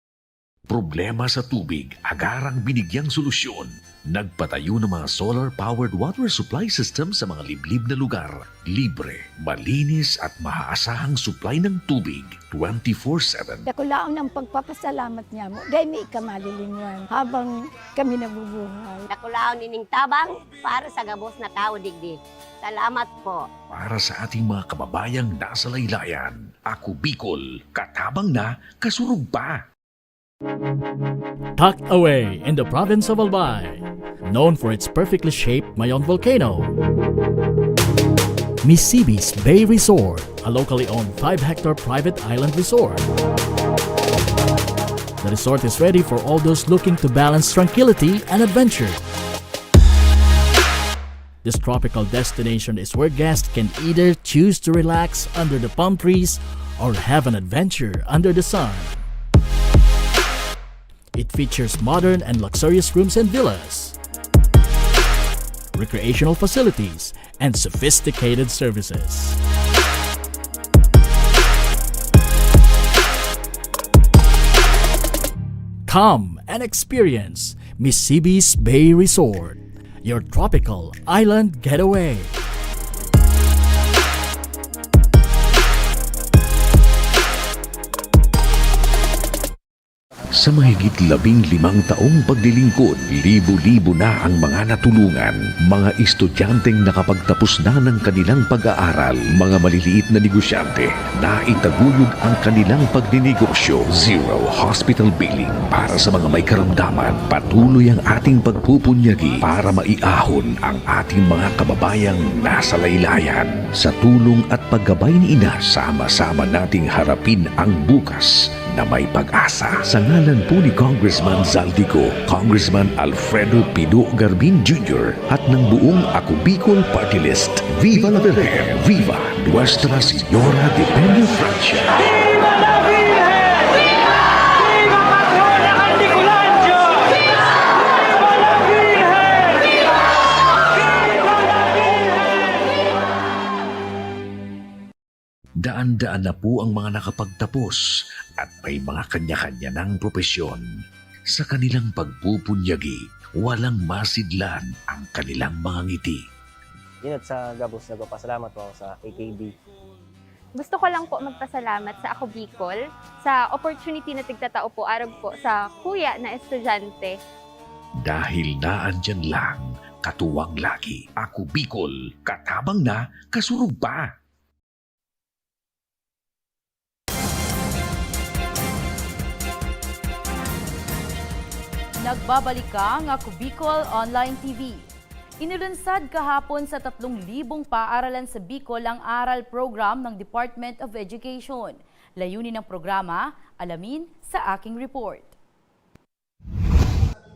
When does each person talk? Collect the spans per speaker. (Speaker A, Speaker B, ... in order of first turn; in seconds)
Speaker A: 0.7-13.7, 23.7-29.6, 90.3-132.1, 145.6-147.9, 148.4-150.7, 151.3-156.2, 168.0-174.1
Speaker B: 13.7-19.1
Speaker C: 19.1-23.4
Speaker D: 31.6-36.7, 38.6-43.0, 45.2-49.0, 51.4-59.0, 61.1-64.0, 65.7-69.4, 75.9-82.3
Speaker E: 157.0-159.5
Speaker F: 160.6-167.1
Speaker G: 182.0-184.9, 185.4-195.3